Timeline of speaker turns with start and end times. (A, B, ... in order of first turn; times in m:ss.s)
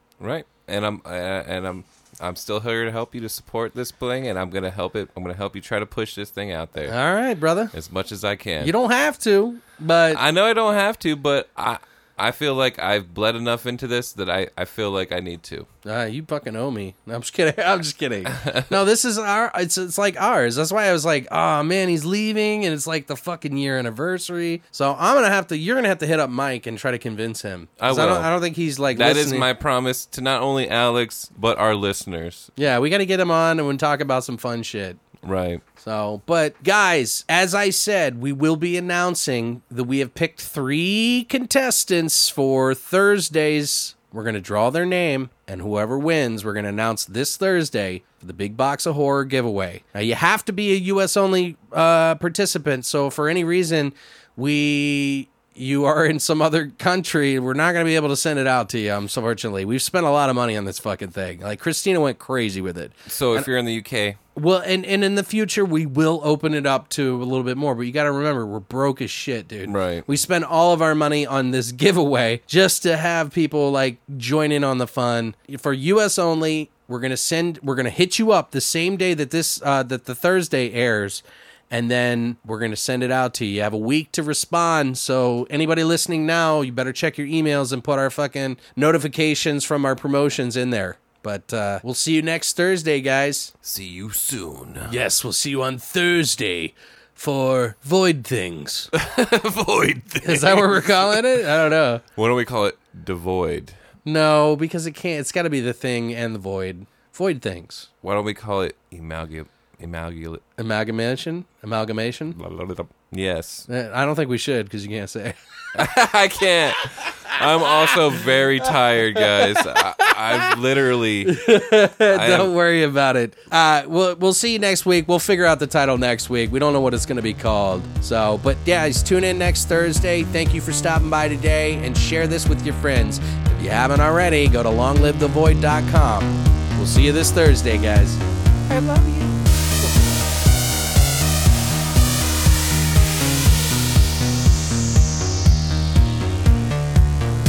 0:00.2-0:07.0 A
0:06.9-0:07.7 B
0:07.7-0:08.7 A
0:08.6-0:10.2 B
0:10.1-0:15.7 A
0:15.8-0:29.5 B
0:18.3-0:18.8 A
0:27.8-0:28.3 A
0:28.9-0:32.5 A
0:32.6-0:35.0 B
0:35.2-0:35.6 A
0:35.8-1:03.5 B
1:03.1-1:04.2 A
1:04.4-1:33.5 B
1:09.7-1:10.1 A
1:33.6-1:35.0 A
1:34.9-1:38.9 B
1:38.9-1:41.2 A
1:40.2-1:42.0 B
1:42.2-1:43.8 A
1:44.0-1:47.9 B
1:48.0-1:50.4 A
1:50.6-1:52.4 B
1:52.4-1:53.7 A
1:53.7-1:55.4 B
1:55.8-2:01.4 A
2:01.2-2:18.2 B
2:02.1-2:02.5 A
2:18.7-2:19.4 A